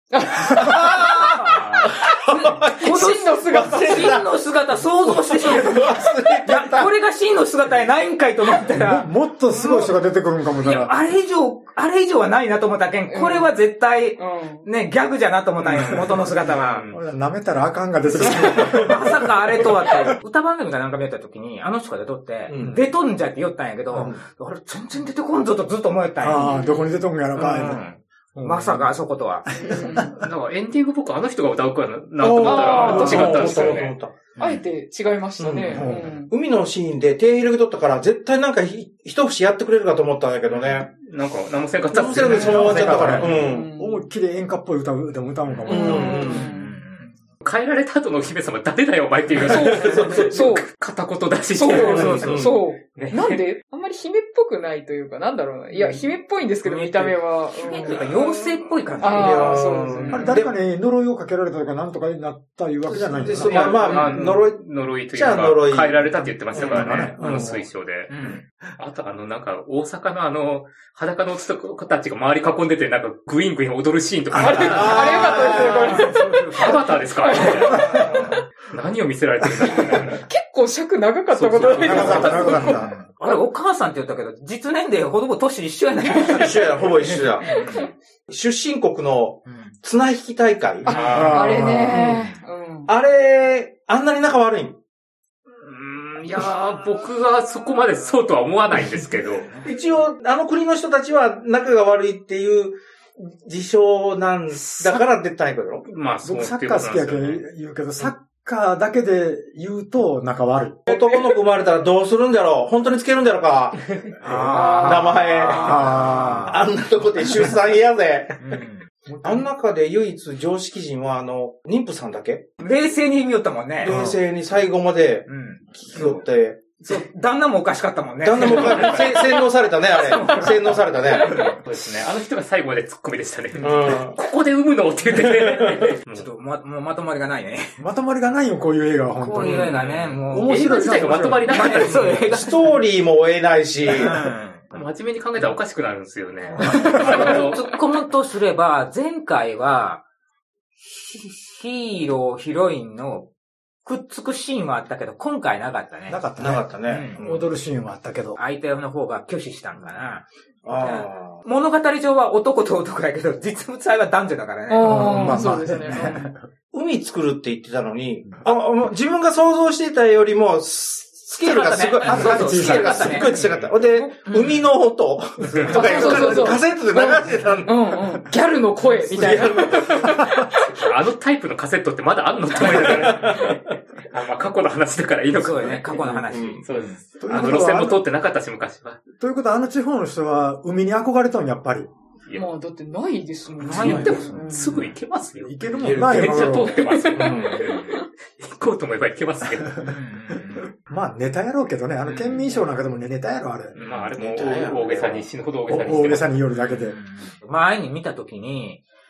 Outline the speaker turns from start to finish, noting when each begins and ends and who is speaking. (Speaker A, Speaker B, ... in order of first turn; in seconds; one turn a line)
Speaker A: 0.1-4.2
Speaker B: 0.6-3.0
Speaker C: 2.7-9.9
Speaker B: 3.5-4.5
Speaker B: 5.0-7.0
Speaker D: 8.7-10.9
Speaker C: 10.6-16.9
Speaker A: 13.1-13.5
Speaker A: 14.2-14.7
Speaker D: 15.7-16.1
Speaker E: 16.5-17.0
Speaker D: 16.9-19.2
Speaker C: 18.2-26.5
Speaker B: 22.5-22.8
Speaker D: 26.2-27.8
Speaker A: 26.4-27.1
Speaker C: 27.4-29.5
Speaker D: 28.4-28.9
Speaker D: 29.5-30.2
Speaker A: 29.6-30.2
Speaker E: 30.1-34.0
Speaker B: 32.2-34.5
Speaker A: 32.4-33.7
Speaker C: 32.5-33.3
Speaker D: 32.9-33.8
Speaker A: 34.4-36.3
Speaker B: 35.4-40.9
Speaker D: 35.7-36.2
Speaker E: 40.5-43.4
Speaker B: 41.9-43.7
Speaker D: 42.1-46.4
Speaker A: 43.2-44.0
Speaker A: 45.7-46.8
Speaker B: 45.8-46.5
Speaker C: 45.9-47.1
Speaker E: 47.4-53.4
Speaker A: 49.4-50.7
Speaker B: 49.8-50.3
Speaker A: 51.5-58.1
Speaker C: 51.8-52.2
Speaker D: 51.9-52.3
Speaker B: 52.1-52.6
Speaker C: 56.6-60.4
Speaker B: 57.8-58.3
Speaker A: 59.0-60.4
Speaker B: 59.0-60.5
Speaker D: 60.1-63.8
Speaker B: 62.8-67.6
Speaker E: 63.4-68.1
Speaker C: 63.5-64.3
Speaker D: 66.3-67.6
Speaker C: 68.1-68.4
Speaker E: 68.8-80.2
Speaker A: 74.3-78.3
Speaker D: 74.3-74.7
Speaker B: 74.7-76.0
Speaker C: 75.5-76.8
Speaker A: 79.9-83.4
Speaker E: 81.3-82.7
Speaker D: 81.8-82.9
Speaker C: 82.1-87.9
Speaker A: 86.2-86.5
Speaker B: 86.3-87.7
Speaker B: 88.3-91.2
Speaker C: 89.5-89.8
Speaker A: 90.8-92.9
Speaker E: 90.9-91.5
Speaker D: 90.9-92.3
Speaker B: 92.9-94.8
Speaker E: 95.6-99.5
Speaker B: 99.6-105.9
Speaker E: 104.8-105.0
Speaker E: 105.8-107.4
Speaker D: 106.2-110.9
Speaker B: 110.9-118.6
Speaker C: 114.2-116.6
Speaker D: 114.2-115.0
Speaker A: 114.5-115.4
Speaker D: 115.5-116.6
Speaker C: 118.4-118.9
Speaker D: 119.1-119.5
Speaker B: 119.2-122.5
Speaker C: 122.6-124.0
Speaker B: 123.8-127.0
Speaker D: 123.8-124.2
Speaker C: 125.3-126.2
Speaker C: 126.8-131.5
Speaker B: 128.2-131.3
Speaker E: 128.5-128.9
Speaker E: 131.2-136.3
Speaker B: 133.6-134.2
Speaker B: 135.6-135.8
Speaker C: 136.1-137.7
Speaker D: 137.8-139.8
Speaker C: 139.2-142.8
Speaker E: 139.4-142.2
Speaker D: 140.3-142.0
Speaker B: 141.9-144.3
Speaker C: 143.9-144.6
Speaker E: 144.7-147.7
Speaker C: 146.6-150.0
Speaker D: 146.7-147.1
Speaker C: 151.0-153.3
Speaker C: 153.8-156.2
Speaker D: 156.1-158.4
Speaker B: 156.4-157.5
Speaker C: 156.9-157.2
Speaker C: 158.4-165.7
Speaker B: 160.7-161.4
Speaker A: 164.7-166.3
Speaker D: 164.8-166.4
Speaker B: 166.7-177.8
Speaker C: 171.4-173.3
Speaker D: 172.0-173.4
Speaker E: 173.2-173.8
Speaker A: 173.9-174.4
Speaker C: 174.3-174.7
Speaker C: 175.4-176.6
Speaker A: 175.7-180.6
Speaker B: 179.1-180.0
Speaker D: 179.4-180.5
Speaker E: 180.6-189.0
Speaker B: 182.6-183.6
Speaker C: 185.3-187.0
Speaker B: 186.3-186.6
Speaker D: 187.2-188.1
Speaker D: 189.2-191.9
Speaker A: 192.3-194.9
Speaker C: 193.6-194.5
Speaker E: 193.7-199.8
Speaker B: 193.8-194.2
Speaker D: 195.4-196.8
Speaker B: 195.8-196.6
Speaker A: 196.6-198.1
Speaker B: 197.1-197.7
Speaker D: 199.6-199.9
Speaker C: 199.8-200.7
Speaker D: 200.8-203.8
Speaker C: 202.1-202.6
Speaker E: 203.8-206.3
Speaker C: 203.8-204.1
Speaker B: 204.2-205.3
Speaker D: 205.7-207.0
Speaker C: 206.5-208.8